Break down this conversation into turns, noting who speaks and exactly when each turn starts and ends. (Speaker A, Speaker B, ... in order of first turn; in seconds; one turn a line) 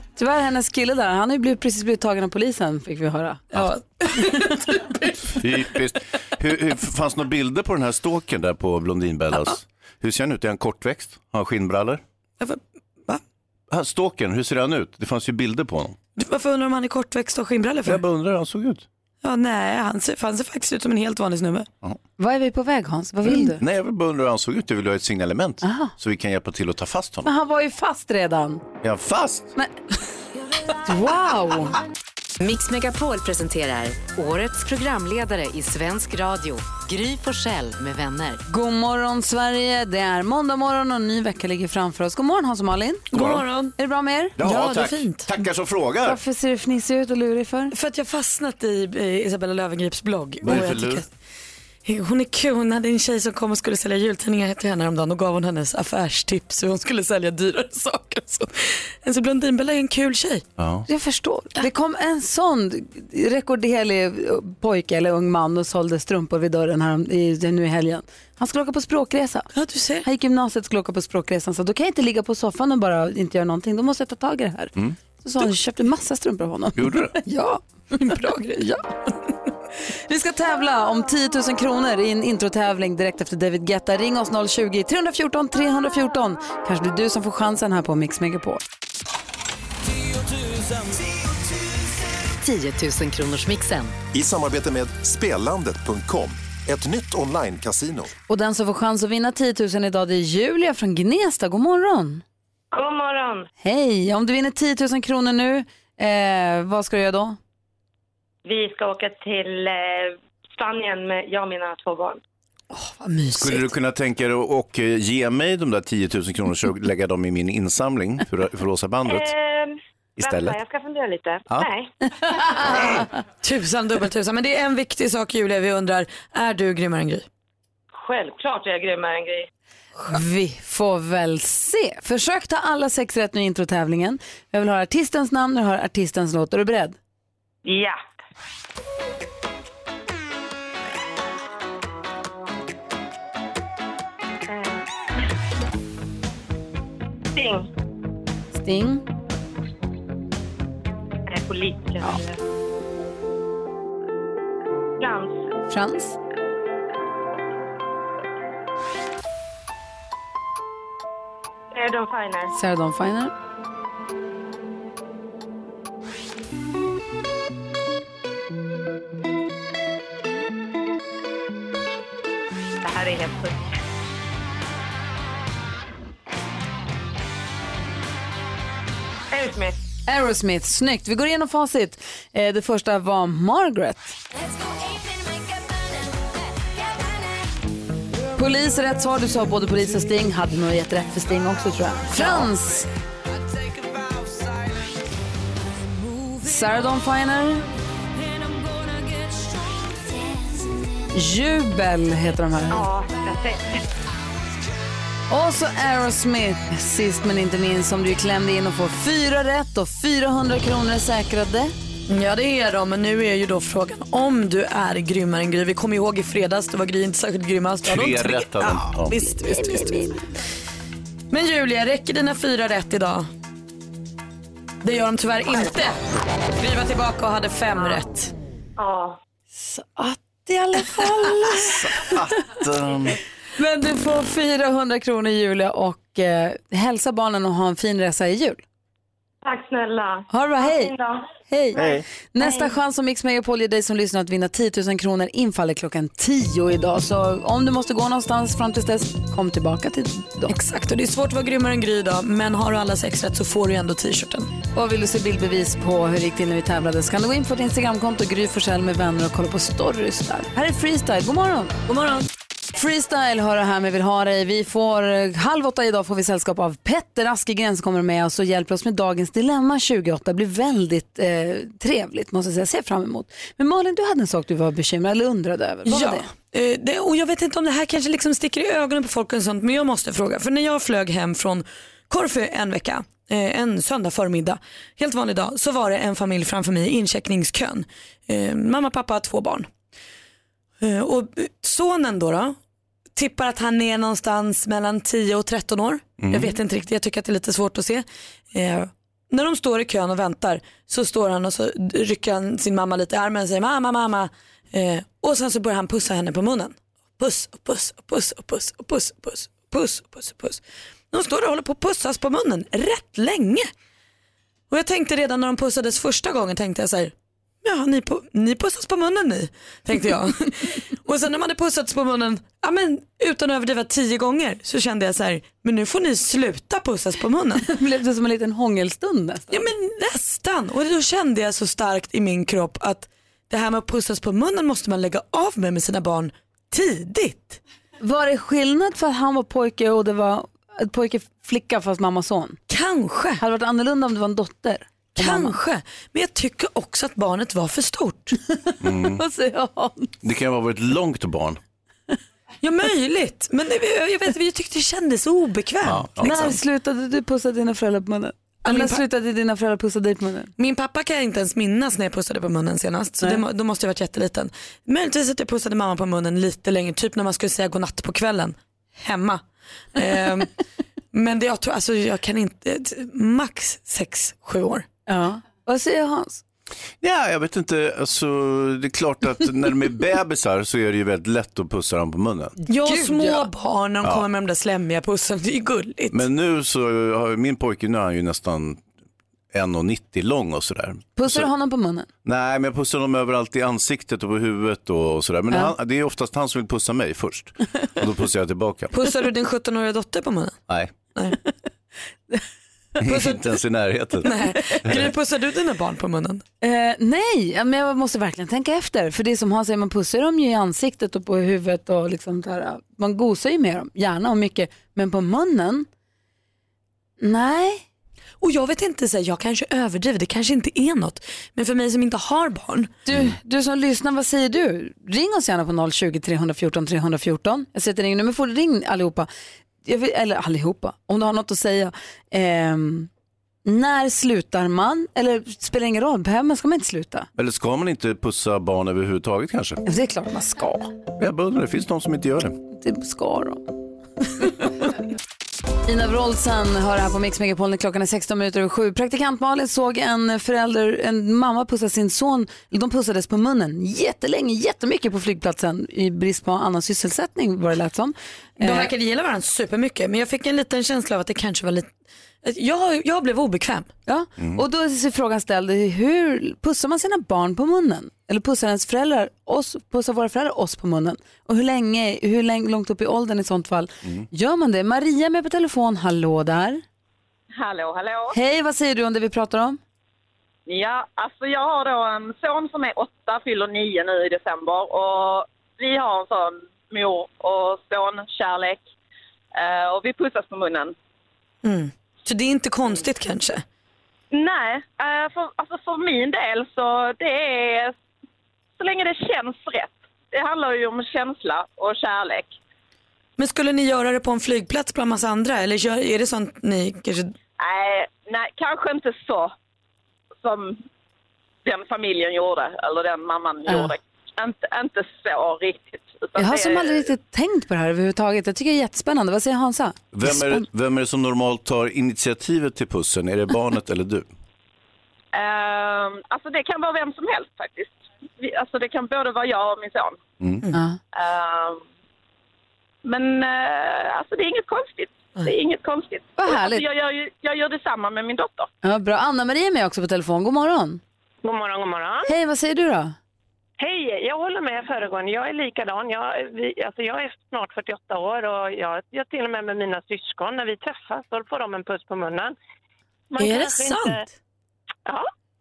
Speaker A: 0.2-3.5
Speaker B: 3.5-5.2
Speaker C: 5.3-12.0
Speaker B: 12.4-13.2
Speaker C: 13.7-16.0
Speaker B: 16.2-18.0
Speaker C: 17.9-18.9
Speaker B: 19.2-21.7
Speaker A: 22.2-23.6
Speaker C: 23.2-27.3
Speaker A: 25.6-25.9
Speaker A: 27.2-28.6
Speaker C: 28.8-29.5
Speaker A: 30.8-31.8
Speaker D: 32.4-38.4
Speaker A: 38.5-43.1
Speaker B: 43.1-43.7
Speaker C: 43.1-43.4
Speaker A: 43.8-44.4
Speaker C: 44.4-46.2
Speaker B: 44.4-45.3
Speaker A: 46.0-47.7
Speaker B: 47.7-51.1
Speaker C: 50.4-51.0
Speaker B: 51.9-60.4
Speaker C: 60.6-60.9
Speaker A: 60.9-69.5
Speaker B: 69.5-70.1
Speaker A: 70.0-77.6
Speaker C: 76.8-77.1
Speaker B: 77.9-78.8
Speaker A: 80.1-88.6
Speaker D: 92.4-94.0
Speaker E: 94.1-98.1
Speaker A: 98.3-102.2
Speaker F: 102.7-103.5
Speaker A: 103.6-107.4
Speaker F: 108.5-112.2
Speaker B: 112.7-113.7
Speaker C: 113.4-119.3
Speaker F: 119.1-121.9
Speaker C: 120.2-120.6
Speaker A: 122.2-122.9
Speaker B: 123.4-127.2
Speaker F: 128.0-129.5
Speaker A: 130.1-137.0
Speaker F: 137.7-138.0
Speaker F: 144.5-144.8
Speaker F: 147.3-147.7
Speaker A: 148.5-149.0
Speaker F: 151.3-152.4
Speaker F: 155.0-155.4
Speaker A: 155.7-156.2
Speaker F: 161.7-162.5
Speaker A: 162.5-163.3
Speaker F: 172.8-173.7
Speaker F: 179.3-179.8
Speaker A: 180.1-184.2
Speaker A: 188.4-192.9
Speaker A: 196.4-197.7
Speaker A: 201.1-202.9
Speaker F: 202.7-203.8
Speaker A: 205.3-211.7
Speaker B: 212.1-220.1
Speaker C: 217.8-219.2
Speaker A: 219.4-220.2
Speaker B: 221.3-223.3
Speaker B: 224.8-226.0
Speaker B: 226.6-228.3
Speaker F: 228.8-229.2
Speaker A: 229.6-232.1
Speaker C: 231.7-233.2
Speaker A: 233.6-238.6
Speaker F: 239.4-242.6
Speaker A: 240.3-240.9
Speaker A: 241.5-250.5
Speaker B: 250.5-254.5
Speaker A: 254.7-261.8
Speaker B: 261.9-262.2
Speaker A: 262.8-276.3
Speaker B: 275.9-289.7
Speaker B: 290.8-292.6
Speaker B: 293.1-310.6
Speaker C: 296.2-296.6
Speaker B: 311.1-313.7
Speaker B: 314.7-317.1
Speaker B: 317.6-327.7
Speaker A: 327.6-329.6
Speaker B: 329.5-337.6
Speaker A: 338.0-342.6
Speaker B: 342.7-343.4
Speaker A: 343.4-345.6
Speaker B: 345.2-348.4
Speaker A: 348.7-350.1
Speaker C: 348.8-349.2
Speaker C: 350.2-351.6
Speaker B: 352.6-356.6
Speaker C: 355.8-356.6
Speaker A: 356.2-360.5
Speaker B: 358.6-359.0
Speaker B: 360.6-369.4
Speaker B: 369.9-370.5
Speaker B: 371.1-374.9
Speaker A: 375.1-376.4
Speaker C: 377.0-382.6
Speaker B: 382.7-386.2
Speaker A: 382.7-383.5
Speaker C: 386.1-388.8
Speaker C: 389.5-391.5
Speaker A: 391.2-392.1
Speaker C: 392.2-398.9
Speaker B: 398.9-400.6
Speaker C: 400.7-400.9
Speaker C: 403.0-404.3
Speaker B: 403.1-403.4
Speaker B: 404.2-406.4
Speaker A: 406.6-415.9
Speaker A: 417.2-417.9
Speaker B: 418.4-422.9
Speaker A: 423.1-429.3
Speaker A: 429.9-433.1
Speaker A: 433.6-437.3
Speaker C: 437.4-439.8
Speaker A: 439.9-440.9
Speaker C: 441.2-442.6
Speaker A: 442.8-443.6
Speaker A: 444.4-444.7
Speaker A: 445.9-458.9
Speaker B: 458.6-461.9
Speaker B: 462.4-463.9
Speaker A: 464.1-476.8
Speaker G: 477.6-478.4
Speaker A: 478.3-479.8
Speaker G: 480.7-488.8
Speaker G: 489.6-490.9
Speaker B: 491.6-493.6
Speaker G: 494.3-497.9
Speaker G: 498.8-502.5
Speaker B: 503.4-507.3
Speaker G: 507.6-509.5
Speaker G: 510.4-510.8
Speaker G: 511.6-517.1
Speaker A: 513.7-513.9
Speaker A: 516.4-520.6
Speaker C: 520.1-524.3
Speaker G: 525.3-530.2
Speaker A: 530.7-531.0
Speaker G: 531.1-531.8
Speaker G: 533.0-538.7
Speaker A: 536.4-536.8
Speaker A: 538.8-541.0
Speaker H: 541.4-542.3
Speaker A: 542.3-543.1
Speaker H: 543.8-552.5
Speaker H: 553.3-554.3
Speaker B: 553.4-554.2